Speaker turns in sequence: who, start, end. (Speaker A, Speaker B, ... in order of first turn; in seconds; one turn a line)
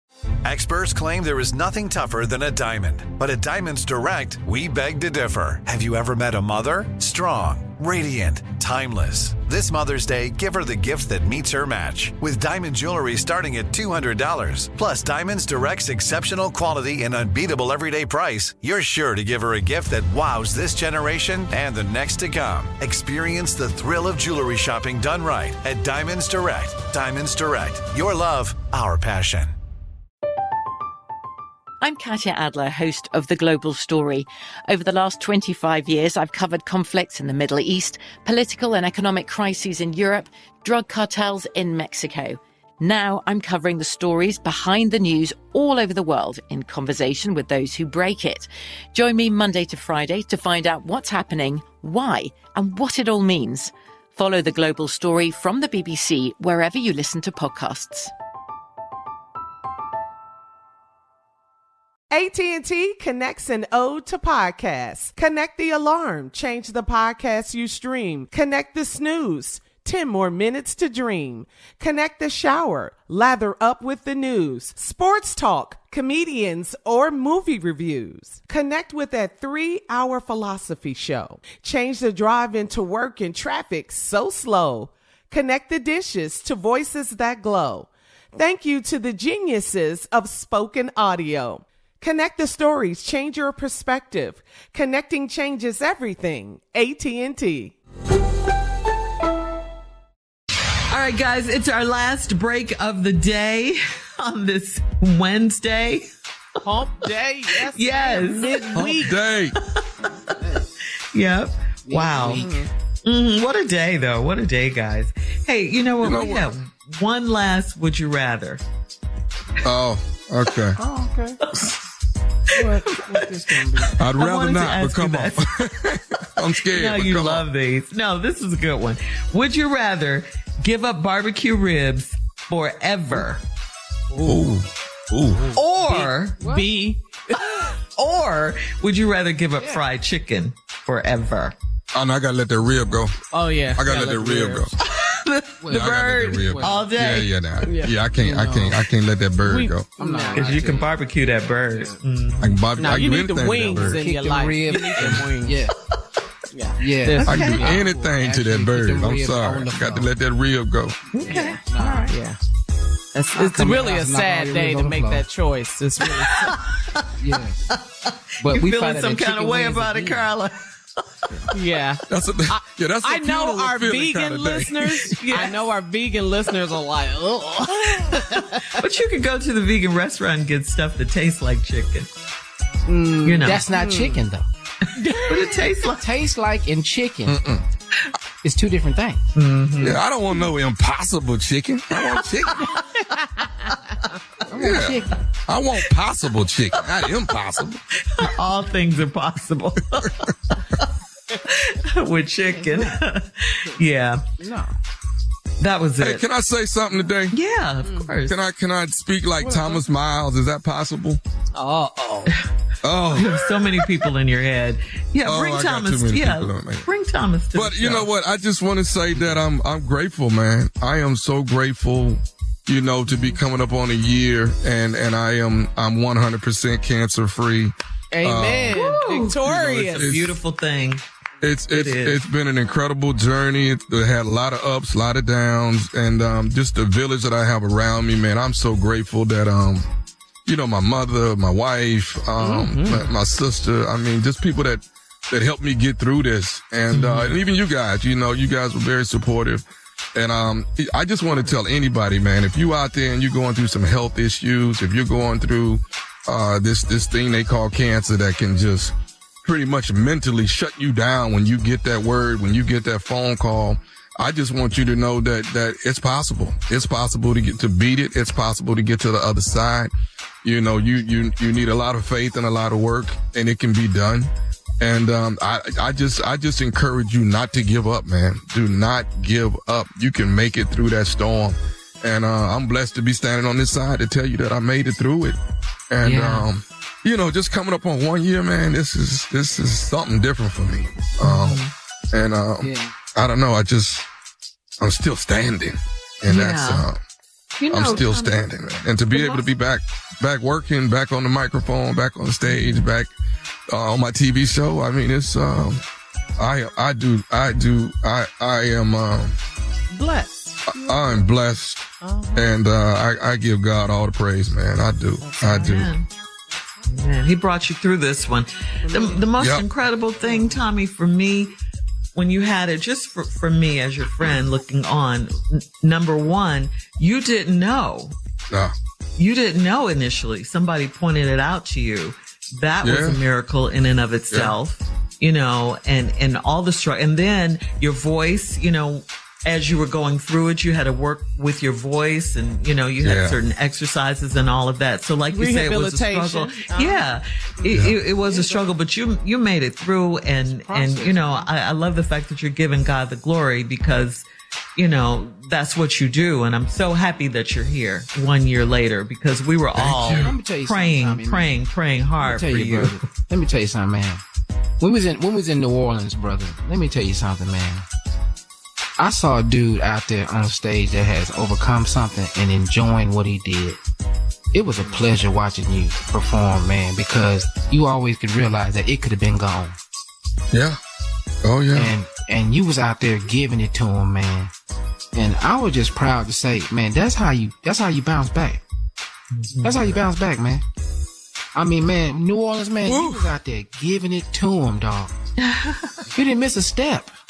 Speaker A: 0.4-29.5
Speaker B: 31.8-58.1
Speaker C: 62.1-97.8
Speaker D: 100.9-106.0
Speaker C: 106.6-109.1
Speaker D: 107.6-108.9
Speaker E: 108.7-109.5
Speaker D: 111.1-112.5
Speaker F: 111.9-112.7
Speaker D: 113.0-118.6
Speaker E: 116.0-116.5
Speaker E: 119.6-120.8
Speaker F: 120.8-121.4
Speaker F: 122.5-123.9
Speaker D: 122.6-123.3
Speaker D: 123.8-125.4
Speaker E: 124.0-127.5
Speaker D: 126.7-133.4
Speaker E: 134.2-135.4
Speaker D: 135.5-136.4
Speaker C: 135.8-137.4
Speaker D: 137.9-141.5
Speaker E: 141.9-143.1
Speaker C: 143.3-144.7
Speaker E: 143.7-144.7
Speaker D: 144.8-147.3
Speaker F: 145.6-145.9
Speaker E: 145.7-149.9
Speaker C: 147.7-148.0
Speaker F: 148.2-148.8
Speaker C: 149.4-150.6
Speaker F: 150.0-150.9
Speaker D: 150.3-152.6
Speaker E: 152.4-154.0
Speaker C: 152.8-155.5
Speaker F: 153.8-155.7
Speaker C: 156.5-157.3
Speaker F: 156.8-160.1
Speaker D: 157.1-157.7
Speaker E: 157.3-161.0
Speaker D: 161.1-162.2
Speaker F: 161.3-162.1
Speaker C: 162.1-162.4
Speaker C: 163.1-166.6
Speaker F: 163.3-165.2
Speaker F: 167.2-167.6
Speaker D: 167.7-170.5
Speaker F: 168.4-170.3
Speaker C: 171.5-178.8
Speaker E: 172.1-175.2
Speaker D: 175.2-175.7
Speaker D: 178.8-182.1
Speaker C: 182.9-184.2
Speaker D: 183.2-183.6
Speaker F: 183.4-184.4
Speaker C: 185.0-185.7
Speaker D: 185.2-186.0
Speaker F: 186.0-187.4
Speaker E: 187.3-187.6
Speaker F: 188.4-189.2
Speaker D: 189.3-190.0
Speaker E: 189.8-192.6
Speaker C: 192.7-193.7
Speaker F: 194.5-195.2
Speaker E: 194.6-197.8
Speaker D: 198.1-200.6
Speaker D: 201.7-204.2
Speaker F: 202.5-203.0
Speaker F: 204.4-204.7
Speaker D: 205.6-206.2
Speaker E: 206.0-207.3
Speaker D: 207.3-208.4
Speaker C: 207.8-208.1
Speaker E: 208.2-211.2
Speaker C: 209.4-209.8
Speaker C: 211.6-212.3
Speaker E: 212.8-213.3
Speaker D: 213.1-218.1
Speaker E: 215.2-216.9
Speaker E: 217.5-228.8
Speaker C: 228.1-230.1
Speaker D: 228.7-231.0
Speaker E: 229.9-230.3
Speaker E: 231.4-239.9
Speaker D: 231.7-232.2
Speaker E: 240.4-258.9
Speaker C: 242.4-243.0
Speaker D: 246.9-247.4
Speaker E: 259.4-269.9
Speaker E: 270.4-274.3
Speaker E: 274.8-285.4
Speaker E: 285.9-291.6
Speaker D: 286.0-286.5
Speaker D: 291.2-291.7
Speaker E: 292.1-294.0
Speaker F: 292.6-292.9
Speaker E: 294.8-297.0
Speaker D: 296.3-296.9
Speaker D: 297.6-298.5
Speaker E: 297.7-303.1
Speaker D: 299.1-299.4
Speaker D: 302.5-302.8
Speaker E: 303.7-305.8
Speaker E: 306.4-309.4
Speaker C: 309.9-311.4
Speaker E: 310.6-315.9
Speaker C: 312.0-312.5
Speaker C: 315.2-315.7
Speaker D: 315.5-316.1
Speaker D: 316.9-321.5
Speaker C: 318.8-319.3
Speaker E: 319.4-319.6
Speaker C: 320.2-320.6
Speaker D: 322.1-328.1
Speaker D: 329.2-363.0
Speaker E: 332.8-333.2
Speaker E: 343.0-343.4
Speaker C: 345.3-347.1
Speaker E: 347.7-348.0
Speaker C: 348.2-348.7
Speaker F: 350.8-351.1
Speaker E: 359.7-360.3
Speaker F: 360.1-361.6
Speaker F: 362.2-364.2
Speaker F: 364.8-367.8
Speaker F: 369.0-373.8
Speaker F: 374.5-379.8
Speaker E: 380.5-380.8
Speaker E: 381.4-381.9
Speaker F: 381.7-384.5
Speaker F: 385.1-388.6
Speaker D: 389.3-390.0
Speaker F: 389.6-390.6
Speaker F: 391.5-395.1
Speaker E: 392.8-393.2
Speaker D: 395.5-395.8
Speaker F: 396.1-397.1